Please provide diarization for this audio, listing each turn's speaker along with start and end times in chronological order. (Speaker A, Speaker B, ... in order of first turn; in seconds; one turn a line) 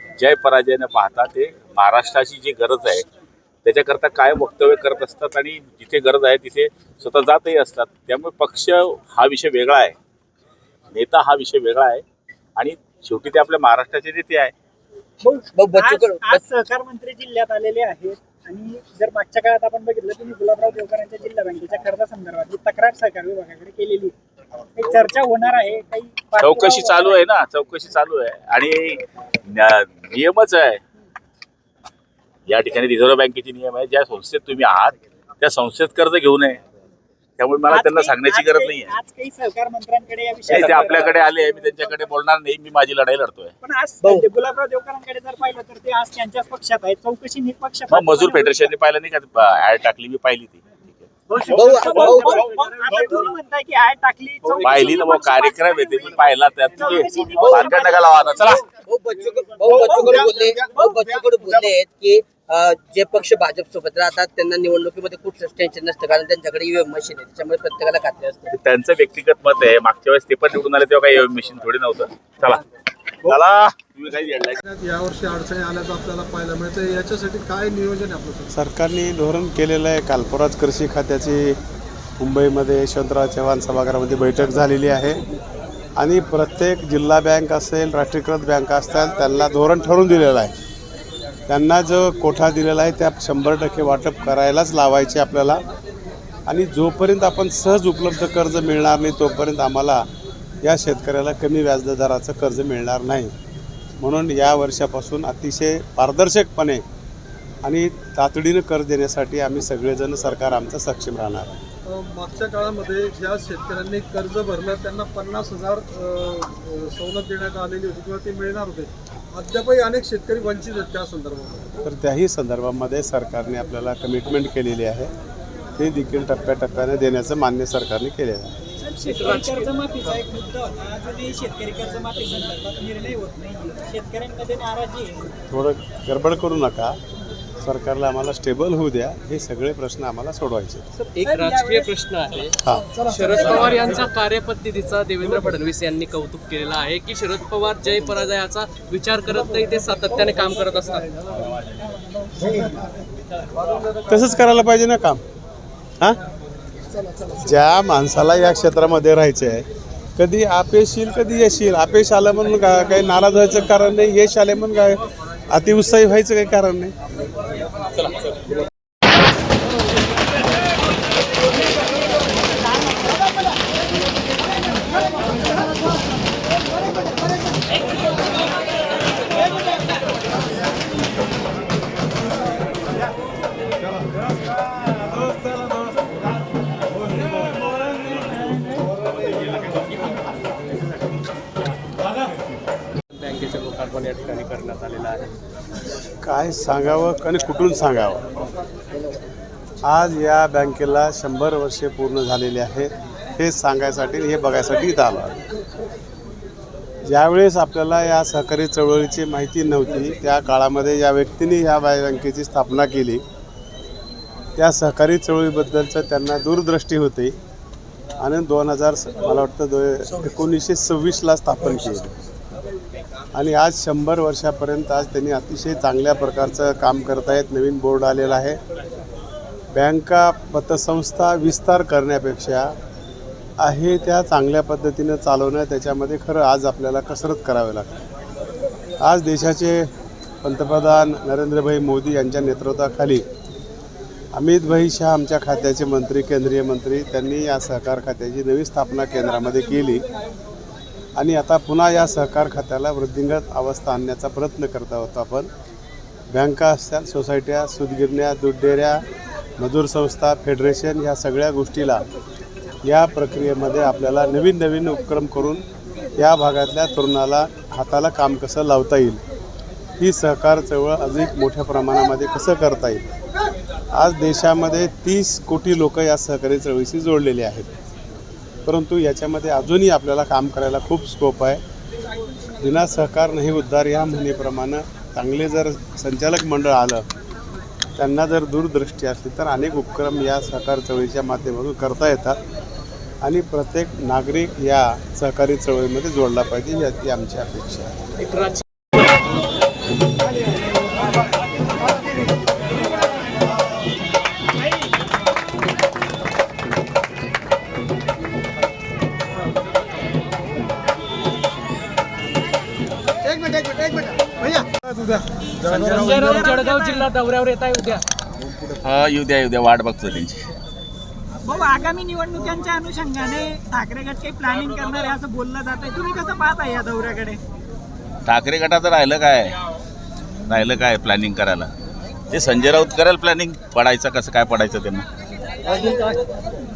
Speaker A: 0.2-3.0
Speaker A: 3.6-9.9
Speaker A: 10.9-12.0
Speaker A: 12.6-14.5
Speaker B: 15.2-24.1
Speaker C: 15.5-16.4
Speaker B: 24.7-27.2
Speaker A: 26.4-30.8
Speaker A: 32.5-36.6
Speaker A: 37.4-38.9
Speaker B: 37.7-41.8
Speaker A: 40.5-43.5
Speaker B: 43.6-48.7
Speaker A: 47.9-51.1
Speaker B: 51.3-58.6
Speaker C: 51.4-52.5
Speaker A: 54.6-58.6
Speaker C: 57.3-57.9
Speaker C: 58.8-68.5
Speaker B: 59.7-61.0
Speaker A: 68.5-72.6
Speaker A: 73.2-74.6
Speaker D: 74.6-78.5
Speaker E: 78.5-81.6
Speaker E: 82.2-85.2
Speaker E: 86.0-90.5
Speaker E: 91.5-95.6
Speaker E: 96.5-100.1
Speaker E: 100.6-103.3
Speaker E: 104.0-106.8
Speaker E: 107.6-111.6
Speaker D: 111.8-121.7
Speaker E: 121.8-125.1
Speaker E: 125.8-128.6
Speaker B: 128.9-135.3
Speaker F: 129.0-129.7
Speaker E: 135.5-137.0
Speaker E: 137.6-140.8
Speaker B: 141.0-141.9
Speaker F: 141.1-151.1
Speaker E: 142.6-142.9
Speaker D: 153.6-154.0
Speaker E: 154.1-155.2
Speaker E: 157.4-166.9
Speaker F: 193.2-195.3
Speaker E: 196.2-198.3
Speaker E: 199.8-205.4
Speaker E: 207.0-213.2
Speaker E: 214.6-217.4
Speaker E: 218.2-222.2
Speaker E: 223.3-228.6
Speaker E: 229.7-232.7
Speaker E: 233.6-238.0
Speaker E: 239.0-239.9
Speaker E: 240.4-243.2
Speaker E: 244.3-250.0
Speaker E: 251.2-255.5
Speaker E: 256.3-259.0
Speaker E: 259.6-262.1
Speaker E: 262.8-265.6
Speaker E: 266.2-269.2
Speaker E: 270.0-273.0
Speaker E: 273.9-277.7
Speaker E: 278.6-281.6
Speaker E: 282.6-287.1
Speaker E: 288.0-292.4
Speaker E: 293.2-298.0
Speaker F: 298.2-298.6
Speaker B: 315.6-317.1
Speaker F: 315.6-318.0
Speaker A: 318.8-320.5
Speaker B: 321.4-327.4
Speaker A: 328.2-329.6
Speaker A: 330.5-331.7
Speaker A: 332.3-335.1
Speaker F: 335.7-336.1